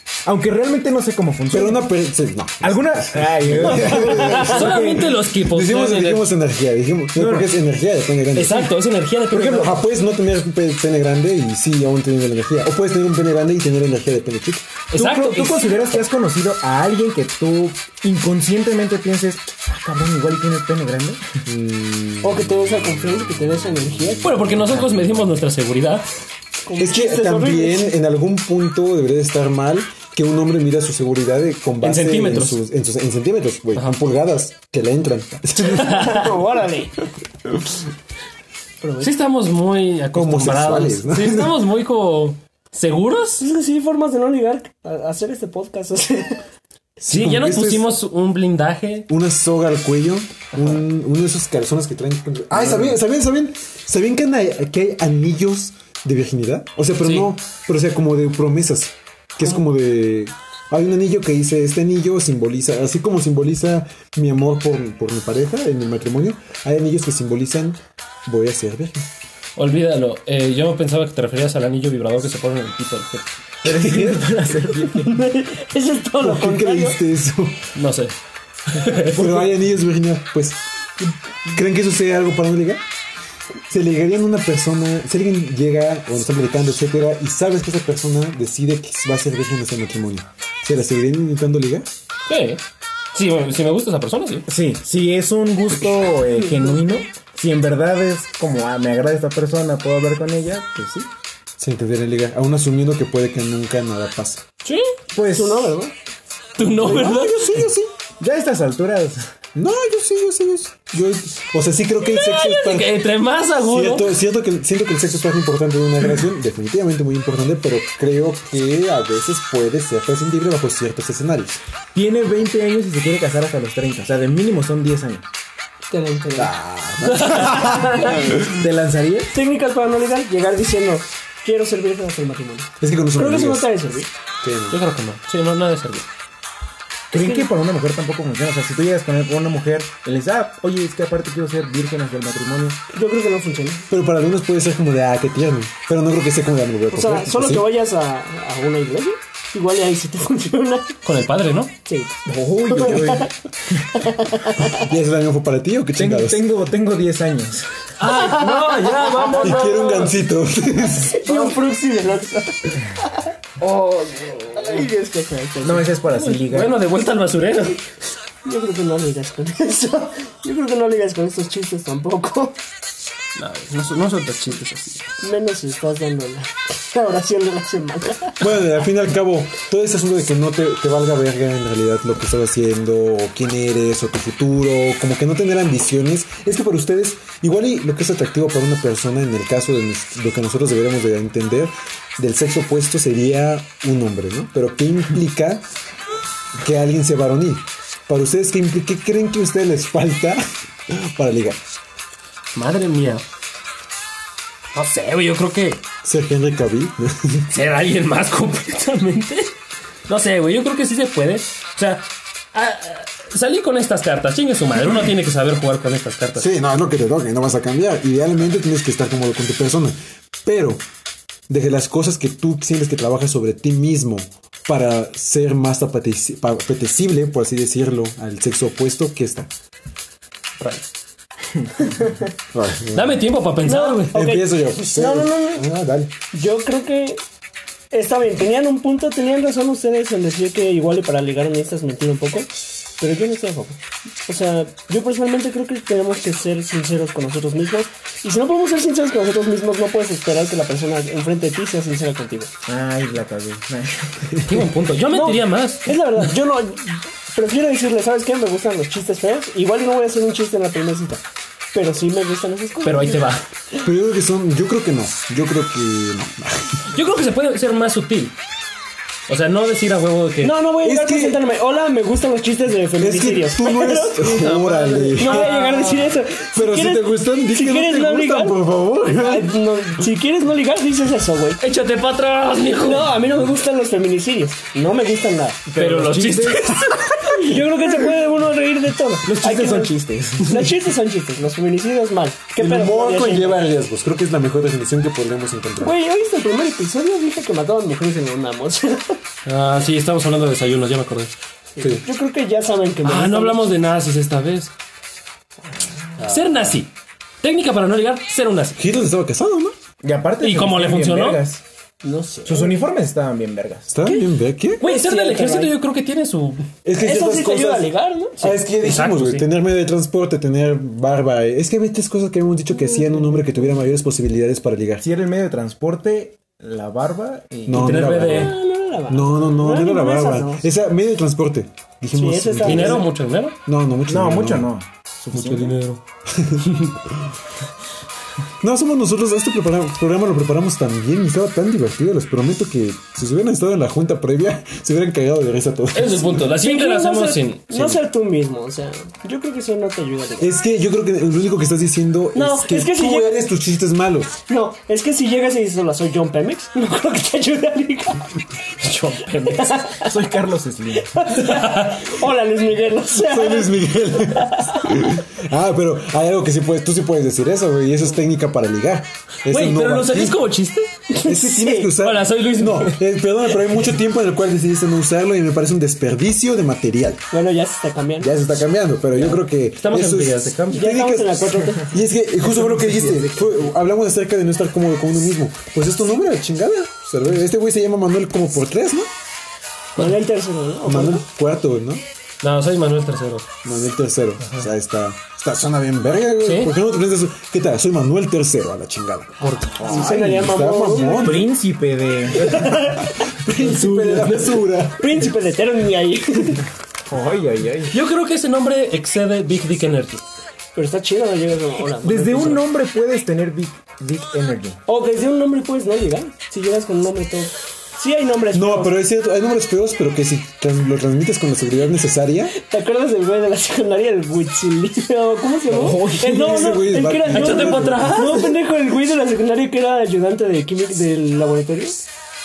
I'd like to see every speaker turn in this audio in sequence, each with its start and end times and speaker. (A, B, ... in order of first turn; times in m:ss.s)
0:00.2-0:01.9 A
0:01.5-0:08.7 B
0:02.6-0:05.1 A
0:04.1-0:06.2 C
0:07.2-0:07.5 A
0:08.3-0:09.9 C
0:09.3-0:14.7 B
0:14.9-0:15.9 C
0:15.0-0:21.4 A
0:21.5-0:25.2 B
0:22.2-0:24.3 D
0:24.2-0:26.1 C
0:26.6-0:28.0 D
0:26.8-0:36.3 B
0:31.8-0:32.6 C
0:35.7-0:37.0 D
0:35.8-0:36.2 C
0:38.8-0:39.1 D
0:39.0-0:43.4 C
0:40.1-0:41.6 B
0:43.4-0:46.5 D
0:47.0-0:47.9 B
0:47.1-0:49.1 C
0:49.1-1:09.1 B
0:57.0-0:57.3 C
1:09.6-1:13.3 C
1:13.6-1:15.2 A
1:13.7-1:14.3 B
1:14.9-1:17.0 D
1:16.2-1:17.7 B
1:17.8-1:18.2 C
1:18.7-1:19.5 C
1:19.1-1:20.6 B
1:21.5-1:22.8 B
1:23.7-1:31.9 B
1:32.3-1:32.6 C
1:33.1-1:34.5 C
1:34.5-1:41.1 A
1:36.4-1:36.7 D
1:41.6-1:44.4 B
1:44.6-1:44.9 C
1:45.1-1:45.8 A
1:45.2-1:45.9 D
1:46.6-1:47.5 C
1:46.8-1:47.3 D
1:46.8-1:47.9 B
1:48.2-1:49.2 A
1:49.6-1:53.0 B
1:52.1-1:54.2 C
1:53.6-2:01.6 B
2:01.9-2:05.3 A
2:05.9-2:06.6 D
2:06.4-2:08.3 B
2:07.0-2:07.7 C
2:07.4-2:08.3 D
2:08.0-2:09.3 A
2:09.3-2:14.1 D
2:12.8-2:13.7 B
2:14.4-2:14.8 B
2:14.7-2:16.1 C
2:17.1-2:22.8 A
2:17.2-2:17.5 D
2:22.9-2:23.9 D
2:23.9-2:27.7 B
2:26.9-2:31.0 D
2:31.0-2:31.7 C
2:31.9-2:32.2 D
2:32.3-2:34.1 A
2:32.7-2:33.3 D
2:34.0-2:34.8 D
2:34.7-2:36.5 B
2:36.0-2:37.7 A
2:38.0-2:39.9 C
2:38.0-2:40.1 D
2:39.4-2:41.2 B
2:41.1-2:46.0 D
2:41.2-2:41.6 A
2:45.6-2:46.8 A
2:46.1-2:47.8 C
2:48.4-2:52.6 D
2:53.4-2:55.1 C
2:55.2-2:58.5 D
2:58.4-3:15.7 B
3:16.6-3:21.6 B
3:22.6-3:23.2 C
3:24.7-3:25.8 C
3:26.0-3:27.5 B
3:27.5-3:29.5 C
3:30.1-3:36.5 C
3:36.4-3:40.8 B
3:41.5-3:49.5 B
3:50.6-3:50.9 C
3:51.7-3:52.2 A
3:52.5-3:53.3 B
3:52.9-3:54.2 C
3:53.6-3:55.7 D
3:54.1-3:56.1 B
3:56.3-3:57.2 D
3:57.9-4:12.5 D
4:12.7-4:14.2 A
4:14.3-4:14.7 B
4:14.5-4:16.0 C
4:15.1-4:21.2 D
4:21.7-4:23.2 D
4:22.8-4:23.5 C
4:23.8-4:26.9 B
4:26.9-4:28.4 C
4:29.3-4:30.6 C
4:30.4-4:34.2 D
4:30.8-4:31.4 B
4:33.0-4:35.5 B
4:34.2-4:36.2 C
4:35.2-4:41.6 D
4:36.5-4:39.6 B
4:41.6-4:43.1 C
4:42.8-4:45.6 D
4:45.7-4:47.0 A
4:45.8-4:47.4 C
4:47.2-4:53.6 D
4:49.2-4:50.8 A
4:52.6-4:56.0 B
4:55.8-4:59.2 D
4:59.5-5:01.3 C
5:01.8-5:03.8 D
5:01.8-5:02.0 B
5:03.0-5:04.7 C
5:06.2-5:06.8 B
5:06.2-5:06.9 C
5:07.4-5:08.8 C
5:08.8-5:09.8 B
5:10.0-5:11.6 A
5:10.4-5:11.4 C
5:12.0-5:12.9 D
5:12.5-5:13.9 A
5:13.9-5:14.8 B
5:14.8-5:16.7 C
5:14.8-5:15.8 D
5:16.8-5:25.0 B
5:17.0-5:18.6 D
5:18.8-5:19.5 C
5:23.0-5:23.4 D
5:25.0-5:28.2 A
5:27.7-5:33.1 B
5:27.7-5:28.6 C
5:28.3-5:30.7 D
5:32.2-5:33.1 D
5:32.6-5:33.6 C
5:33.7-5:34.7 B
5:34.1-5:35.8 A
5:35.3-5:36.0 C
5:36.3-5:37.2 B
5:36.6-5:37.0 C
5:38.6-5:46.6 B
5:45.9-5:48.0 C
5:46.6-5:50.5 D
5:50.4-5:54.4 B
5:52.3-5:53.4 D
5:54.5-5:58.3 D
5:58.8-5:59.9 C
5:59.3-6:00.2 D
6:00.0-6:01.2 A
6:01.0-6:05.1 D
6:01.3-6:02.1 C
6:03.2-6:10.4 B
6:09.5-6:10.9 C
6:11.1-6:11.9 D
6:11.2-6:17.3 B
6:11.8-6:13.0 C
6:17.3-6:18.4 D
6:18.2-6:29.1 B
6:19.1-6:20.8 C
6:20.7-6:21.9 D
6:22.9-6:23.3 A
6:30.0-6:31.3 D
6:30.8-6:32.0 B
6:32.4-6:33.5 C
6:33.6-6:41.5 B
6:36.4-6:36.7 C
6:39.4-6:39.8 C
6:39.8-6:41.4 D
6:41.0-6:43.0 A
6:42.4-6:44.2 D
6:43.1-6:45.3 B
6:45.0-6:46.6 D
6:47.1-6:48.0 A
6:47.9-6:50.2 C
6:50.8-6:52.6 D
6:52.0-6:54.8 A
6:54.9-6:59.0 D
6:58.5-7:02.6 B
7:02.6-7:12.0 D
7:05.7-7:06.7 A
7:05.7-7:08.4 B
7:07.2-7:08.6 C